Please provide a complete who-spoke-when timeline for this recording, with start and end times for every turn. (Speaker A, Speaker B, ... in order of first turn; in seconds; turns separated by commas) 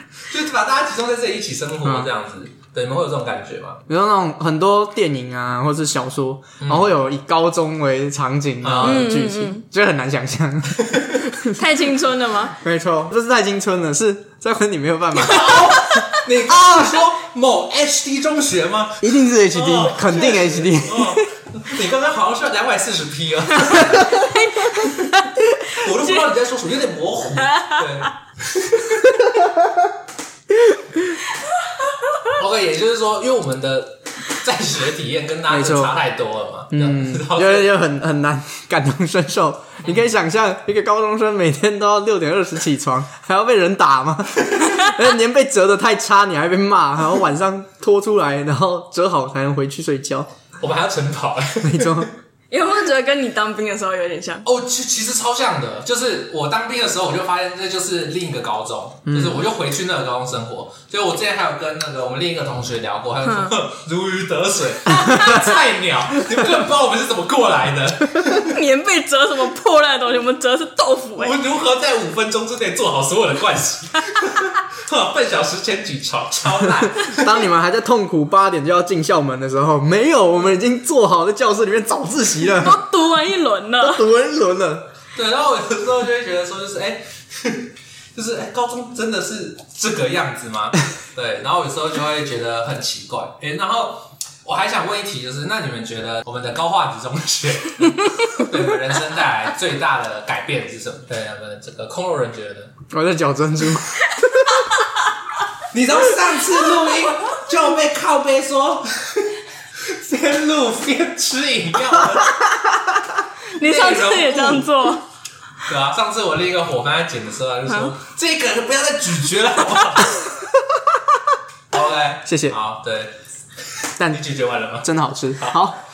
Speaker A: 0.3-3.8, Speaker B: 1.8-2.1, Speaker B: 3.9-11.6, Speaker A: 6.6-6.9, Speaker A: 8.6-9.1, Speaker C: 8.8-9.6, Speaker A: 10.8-11.3, Speaker C: 11.5-12.6, Speaker B: 12.6-15.7, Speaker A: 15.2-24.3, Speaker C: 15.3-16.1, Speaker B: 19.0-21.2, Speaker B: 23.8-24.2, Speaker C: 24.1-25.3, Speaker A: 25.7-29.2, Speaker C: 27.4-27.9, Speaker B: 29.1-29.9, Speaker B: 30.5-31.2, Speaker A: 32.2-37.7, Speaker B: 35.5-35.9, Speaker B: 36.7-50.3, Speaker A: 39.8-40.1, Speaker A: 44.4-44.7, Speaker A: 50.6-52.1, Speaker B: 51.6-52.1, Speaker C: 52.5-54.5, Speaker A: 54.4-68.5, Speaker B: 59.1-59.4, Speaker C: 63.2-63.5, Speaker C: 68.4-71.4, Speaker A: 71.2-77.4, Speaker B: 76.7-82.8, Speaker C: 82.5-84.0, Speaker B: 83.8-84.8, Speaker A: 85.1-102.7, Speaker B: 102.9-104.6, Speaker C: 104.2-104.8, Speaker A: 105.7-112.4, Speaker C: 113.5-115.0, Speaker A: 113.6-114.7, Speaker A: 115.6-120.2, Speaker A: 121.7-123.2, Speaker B: 122.2-122.5, Speaker A: 123.8-125.6, Speaker B: 124.8-125.8